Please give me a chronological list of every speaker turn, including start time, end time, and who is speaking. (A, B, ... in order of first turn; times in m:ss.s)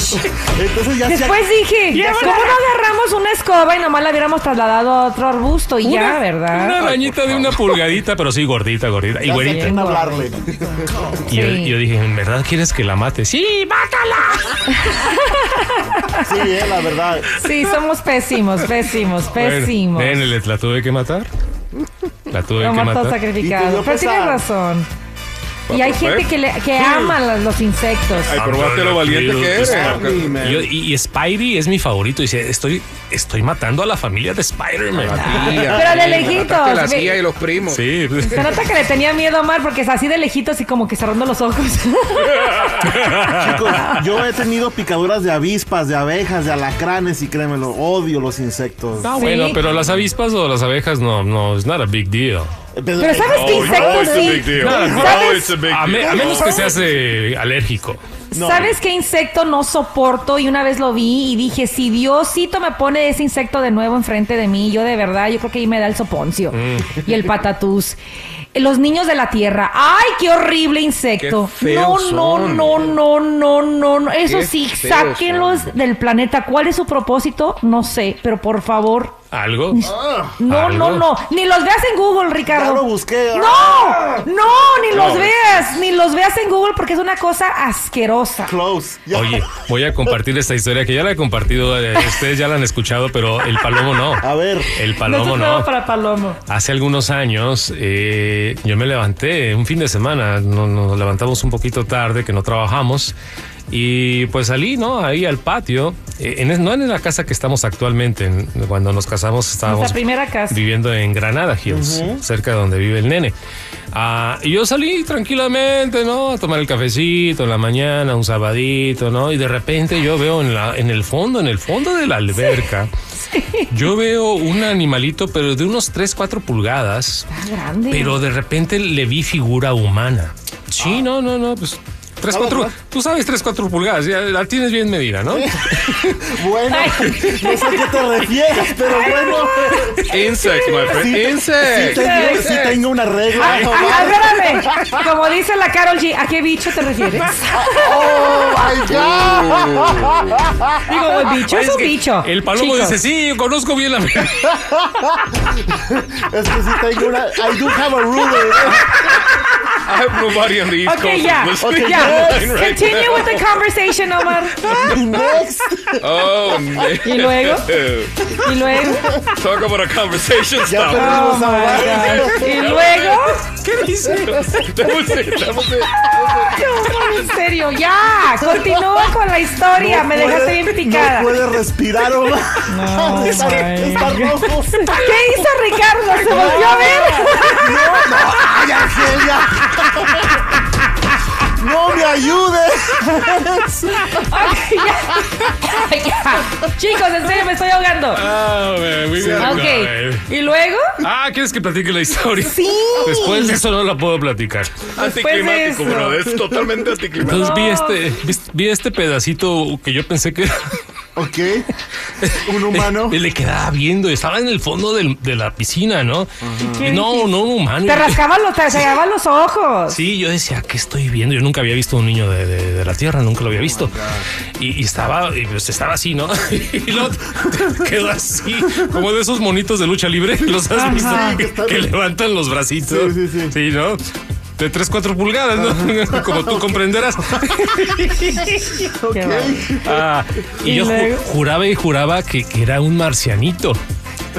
0:00.2-0:02.6 A
0:01.0-0:06.8 B
0:05.8-0:09.7 C
0:06.8-0:07.6 D
0:09.2-0:11.0 A
0:09.4-0:10.2 B
0:11.3-0:14.5 C
0:11.3-0:11.8 B
0:14.7-0:16.2 B
0:16.2-0:17.3 A
0:17.3-0:20.3 B
0:19.3-0:21.3 C
0:22.3-0:23.2 C
0:22.6-0:24.9 B
0:23.4-0:24.4 A
0:25.7-0:27.2 D
0:25.7-0:28.4 B
0:28.3-0:30.4 D
0:28.4-0:29.7 C
0:29.7-0:30.7 A
0:30.4-0:35.3 C
0:34.9-0:38.0 D
0:35.2-0:37.2 B
0:37.7-0:38.4 C
0:38.2-0:43.2 B
0:42.8-0:43.5 C
0:43.3-0:49.2 A
0:43.7-0:44.0 B
0:49.0-0:52.5 C
0:49.1-0:49.6 B
0:49.6-0:50.1 D
0:52.7-0:54.5 A
0:53.0-0:55.5 B
0:53.3-0:57.0 D
0:54.6-0:58.0 C
0:58.3-1:08.0 B
0:58.3-0:58.8 A
1:06.5-1:06.9 C
1:08.5-1:19.2 B
1:11.2-1:13.0 D
1:14.2-1:15.7 D
1:19.3-1:19.8 C
1:19.7-1:28.5 B
1:19.8-1:20.4 A
1:20.5-1:21.1 C
1:22.5-1:24.2 A
1:24.9-1:25.7 D
1:28.4-1:29.4 A
1:29.1-1:34.2 C
1:34.2-1:34.7 A
1:34.8-1:35.7 C
1:34.9-1:36.4 B
1:36.5-1:43.1 C
1:43.7-1:49.9 C
1:49.6-1:50.6 B
1:50.5-1:53.3 C
1:51.7-1:52.2 A
1:53.9-2:02.9 C
2:02.3-2:03.8 B
2:03.7-2:07.2 C
2:07.3-2:08.2 B
2:07.9-2:15.4 C
2:12.3-2:12.8 A
2:15.3-2:20.0 A
2:16.7-2:21.0 B
2:20.1-2:22.5 D
2:20.9-2:24.9 A
2:21.7-2:22.8 B
2:23.3-2:28.1 B
2:23.4-2:24.3 C
2:27.6-2:30.6 A
2:28.4-2:30.4 D
2:30.9-2:33.0 B
2:31.4-2:34.8 C
2:35.4-2:39.0 A
2:39.0-2:39.5 B
2:39.8-2:43.5 D
2:40.8-2:45.0 B
2:41.6-2:42.5 A
2:44.7-2:46.1 A
2:46.0-2:48.1 D
2:47.0-2:47.7 B
2:48.4-2:49.2 B
2:48.6-2:49.2 A
2:49.3-2:57.2 D
2:50.6-2:52.7 A
2:50.9-2:53.5 B
2:54.0-2:54.4 C
2:56.0-3:01.4 B
2:59.8-3:05.1 A
3:02.7-3:08.6 B
3:06.2-3:10.4 A
3:09.7-3:10.4 B
3:11.5-3:14.1 A
3:14.1-3:18.2 B
3:18.1-3:20.2 C
3:19.2-3:19.6 A
3:19.3-3:21.0 B
3:21.0-3:24.8 C
3:22.4-3:23.6 B
3:24.9-3:27.6 D
3:25.0-3:26.1 B
3:27.2-3:28.0 B
3:27.3-3:30.8 C
3:31.2-3:31.7 A
3:32.2-3:36.3 C
3:32.3-3:33.2 A
3:36.4-3:37.0 A
3:36.6-3:40.0 B
3:36.8-3:38.2 C
3:39.9-3:44.0 C
3:43.6-3:44.2 A
3:44.6-3:54.0 C
3:48.7-3:49.0 A
3:50.7-3:51.4 B
3:50.9-3:51.9 A
3:52.8-3:53.6 A
3:54.6-3:58.7 C
3:55.6-3:56.8 A
3:58.8-4:00.0 A
3:58.8-3:59.8 B
3:59.8-4:03.8 C
4:00.6-4:01.2 B